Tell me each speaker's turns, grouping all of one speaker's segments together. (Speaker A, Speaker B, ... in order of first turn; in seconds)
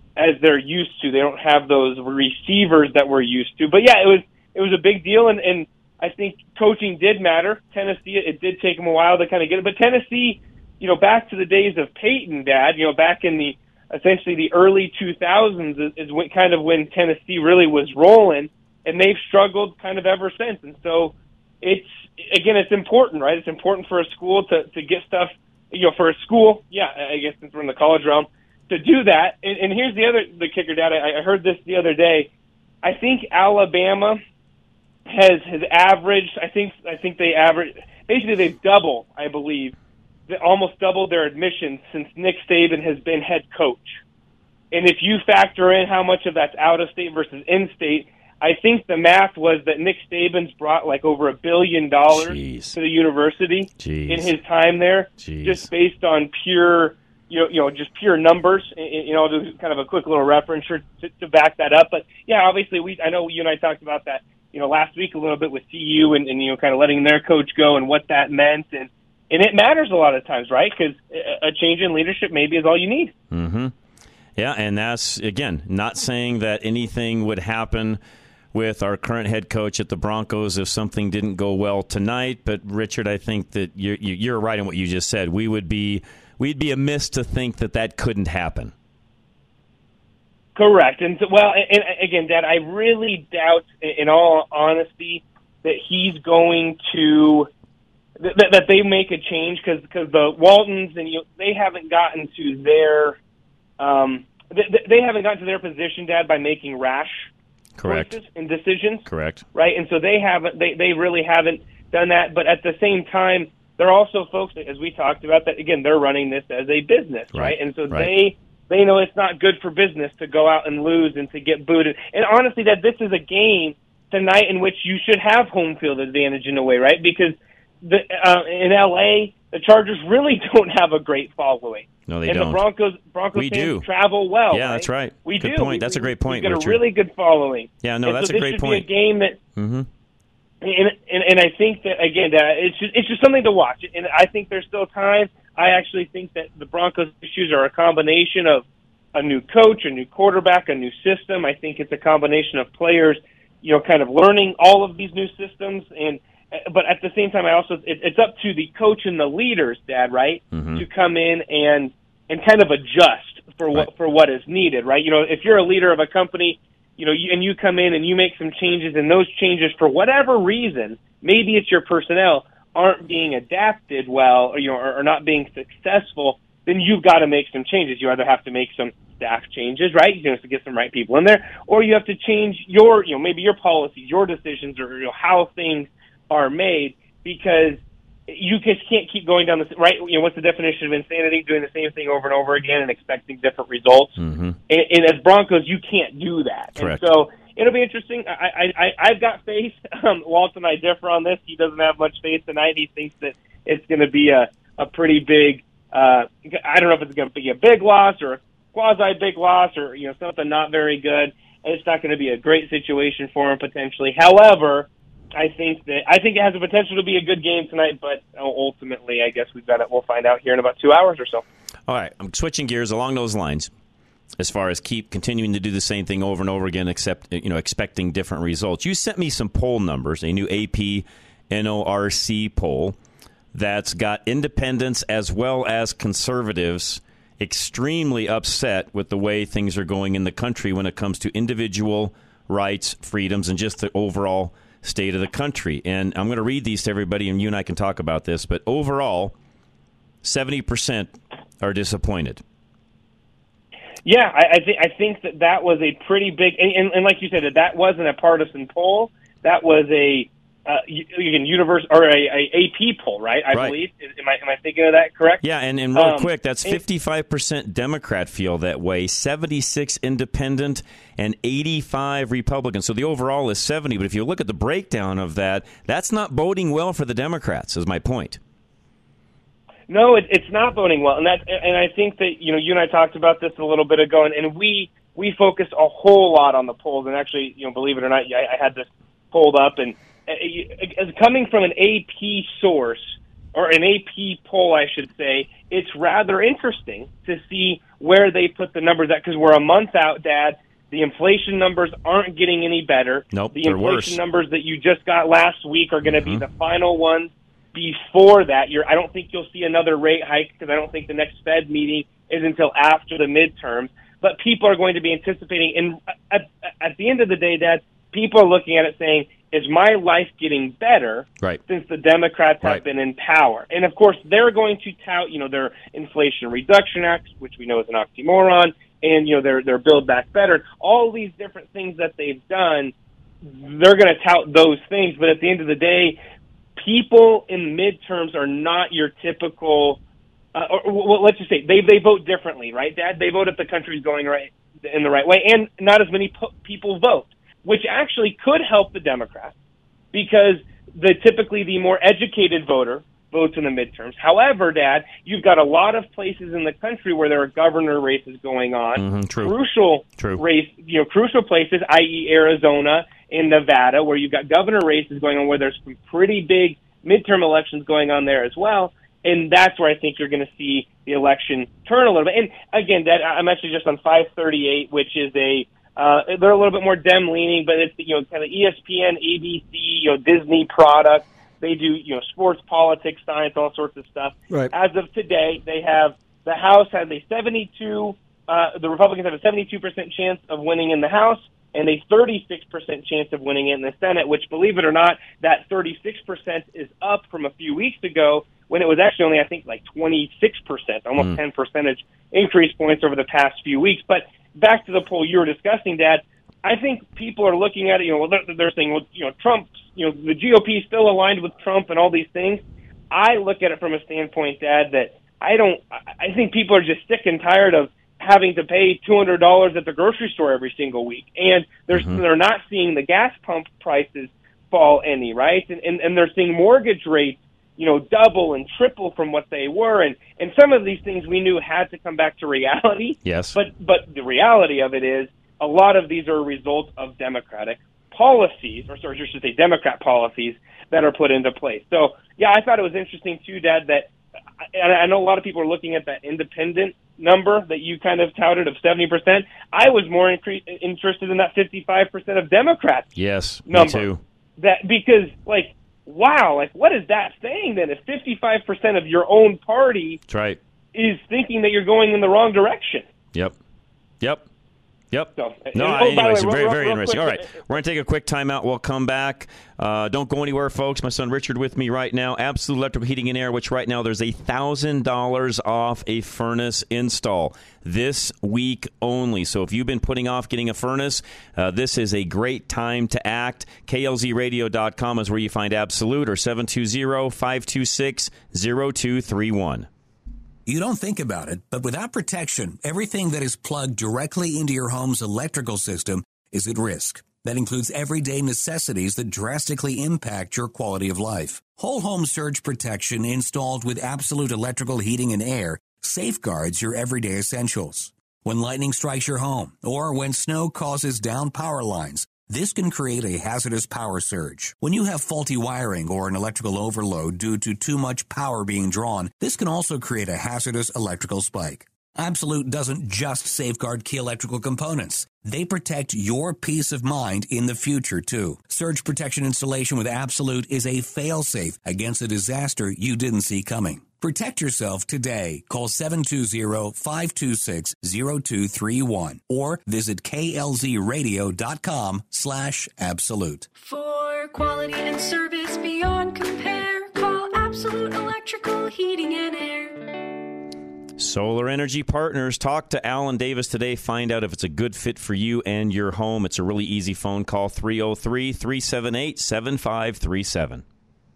Speaker A: 0.2-32.3, 32.8-34.2, 35.1-39.7, 40.3-44.0, 44.7-73.1, 90.5-97.5, 98.2-103.2, 103.8-107.3, 107.8-139.4, 140.6-194.2, 194.7-221.4, 254.0-265.4, 265.9-266.8, 279.9-332.9, 333.4-336.2, 336.8-340.0, 340.5-349.5, 350.1-444.1, 444.7-453.1, 453.7-460.2, 460.9-463.1, 465.4-467.6
Speaker B: 52.1-52.8, 53.8-54.3, 55.2-55.7, 73.3-73.7, 74.3-78.0, 78.5-88.7, 107.8-108.2, 109.0-109.4, 117.3-118.1, 132.1-132.6, 133.3-136.8, 137.8-138.9, 139.6-139.9, 160.5-160.8, 194.2-194.6, 196.8-197.1, 221.9-223.7, 224.4-232.9, 233.5-249.3, 250.2-252.4, 263.5-263.8, 265.4-278.4, 303.3-304.2, 306.0-306.4, 358.9-359.6, 360.2-360.4, 421.9-422.2, 433.2-433.6, 453.1-454.2, 460.3-460.6, 465.1-489.9, 551.2-560.8
Speaker C: 490.6-543.7
Speaker D: 543.7-550.0